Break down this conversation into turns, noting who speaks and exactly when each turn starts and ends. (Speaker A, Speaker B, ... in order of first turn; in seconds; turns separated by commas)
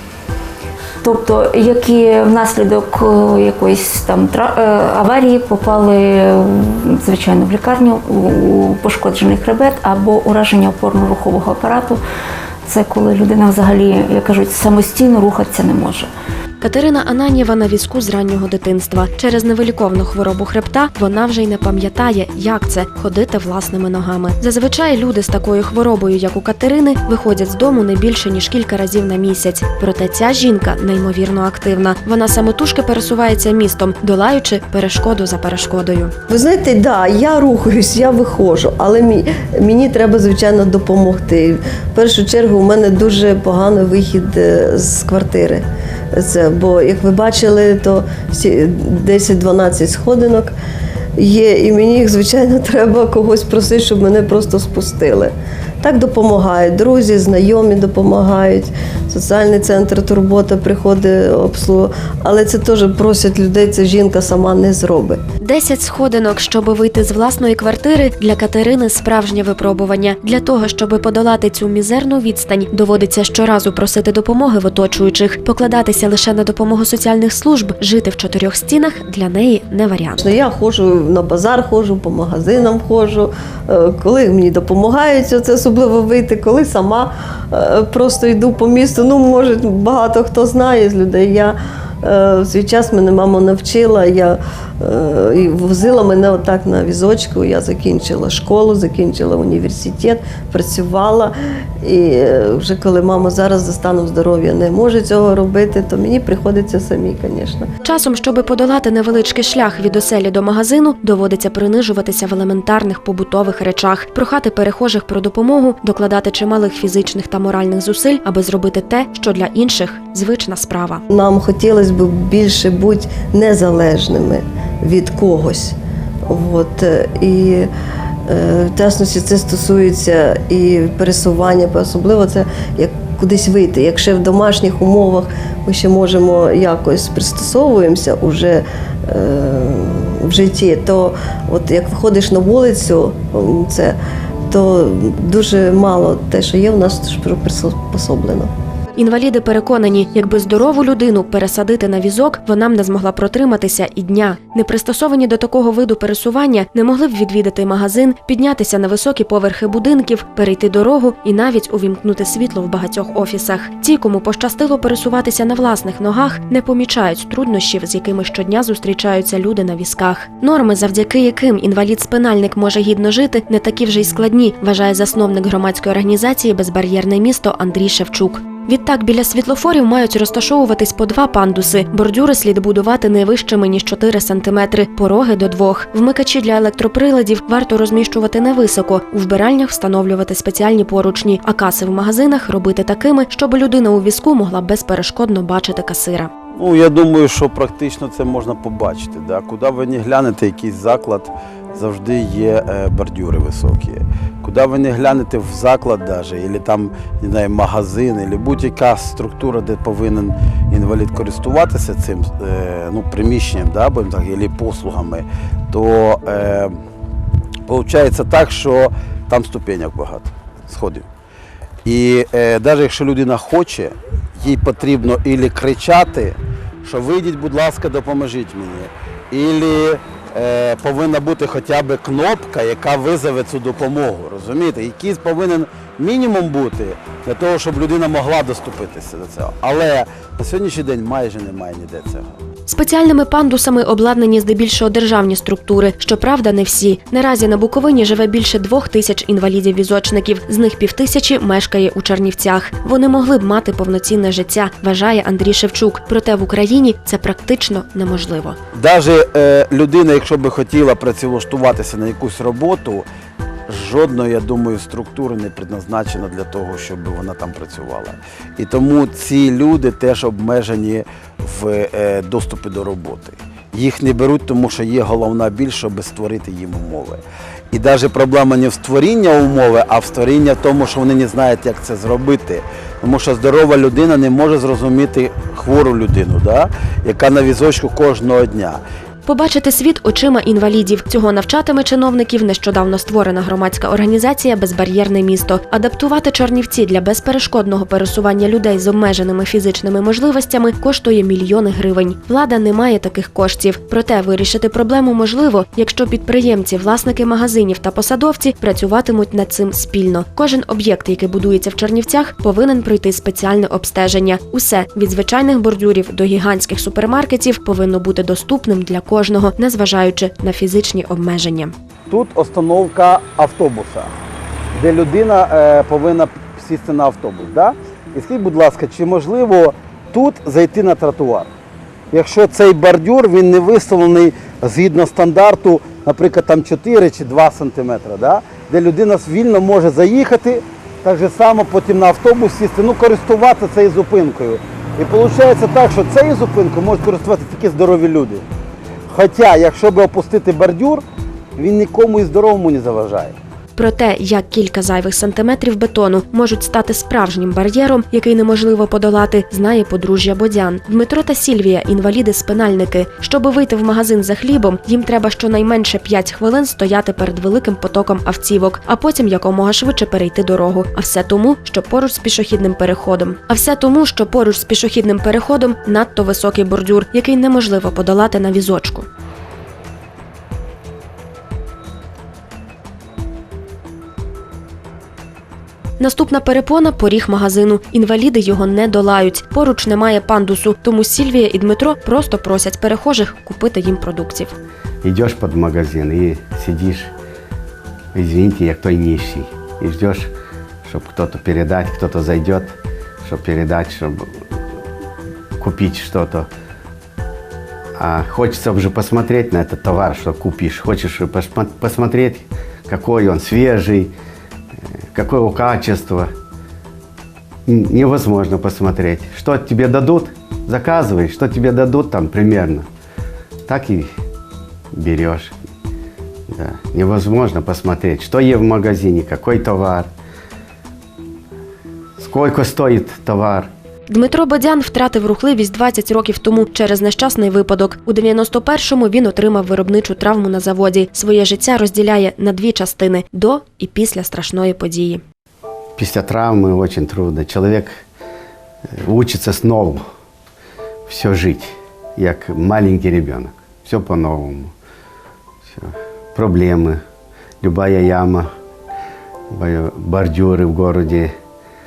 Speaker A: 1.0-12.0, Speaker A: 12.7-16.1, Speaker B: 16.6-36.1, Speaker C: 36.3-50.5, Speaker C: 51.2-65.2, Speaker B: 65.4-80.2, Speaker C: 80.2-107.7, Speaker B: 107.8-121.0, Speaker C: 121.1-125.8, Speaker C: 126.3-127.7, Speaker C: 128.3-143.9, Speaker C: 144.5-148.5, Speaker B: 149.0-196.3, Speaker D: 196.6-216.7, Speaker D: 217.7-221.1, Speaker D: 221.8-242.3, Speaker B: 242.7-258.6, Speaker D: 258.7-263.1, Speaker D: 263.7-288.8, Speaker B: 289.2-321.7, Speaker D: 322.1-324.1, Speaker D: 324.8-331.5, Speaker D: 332.1-348.5, Speaker D: 349.1-351.0, Speaker D: 351.6-353.4, Speaker B: 353.8-379.1, Speaker B: 386.0-394.6, Speaker E: 395.0-397.1, Speaker E: 398.1-400.3, Speaker E: 400.9-404.3, Speaker E: 405.6-406.5, Speaker E: 408.0-414.1, Speaker E: 415.1-416.3, Speaker E: 417.7-422.9, Speaker E: 423.7-424.1, Speaker E: 424.9-425.5, Speaker E: 426.5-430.1, Speaker E: 432.2-433.7, Speaker B: 434.1-445.2, Speaker E: 446.0-448.0, Speaker E: 449.0-450.0, Speaker E: 451.1-454.7, Speaker E: 455.7-457.0, Speaker E: 457.6-458.5, Speaker E: 459.5-461.3